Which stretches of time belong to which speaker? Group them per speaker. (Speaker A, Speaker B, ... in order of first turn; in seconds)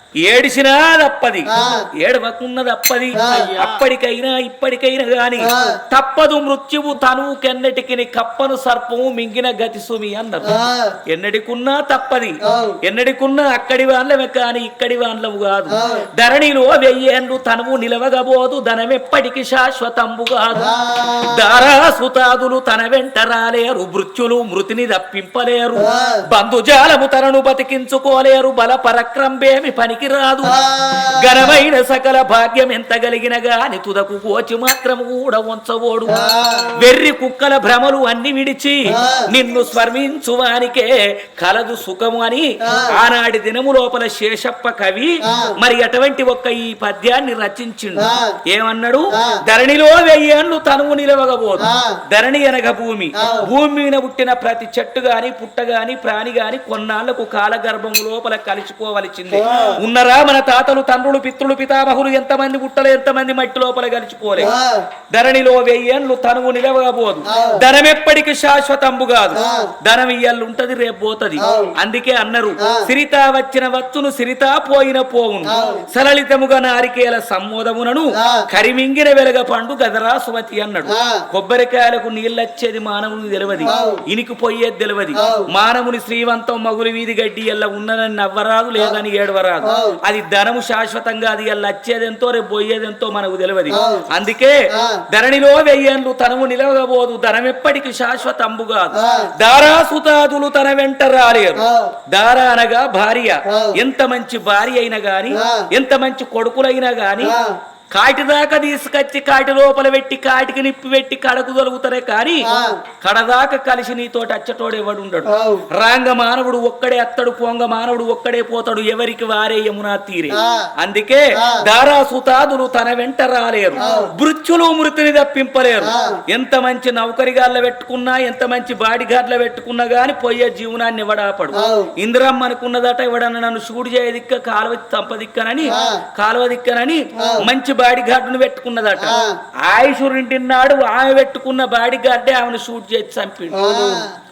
Speaker A: 0.2-10.6, 11.1-36.2, 36.8-64.5, 65.1-107.4, 107.9-112.5, 113.0-144.1
Speaker B: 1.5-1.9, 3.2-3.6, 5.4-5.8, 10.4-11.0, 12.4-12.8, 15.7-16.1, 20.5-21.5, 25.8-26.2, 30.4-31.6, 36.1-36.8, 38.9-39.3, 42.6-42.9, 45.2-45.6, 48.0-48.4, 49.1-49.4, 51.6-52.0, 53.2-53.5, 59.3-59.8, 64.4-64.9, 67.3-67.6, 69.3-69.7, 71.4-71.7, 75.5-75.8, 78.2-78.5, 80.9-81.2, 83.7-84.0, 85.2-85.5, 89.6-90.0, 93.7-94.1, 94.7-95.0, 98.9-99.3, 101.6-102.0, 103.5-103.8, 105.3-105.7, 107.2-107.6, 112.5-112.8, 115.3-115.7, 120.3-120.7, 121.4-121.7, 123.8-124.1, 125.8-126.2, 131.5-131.9, 135.7-136.0, 137.2-137.4, 139.0-139.4, 143.5-144.1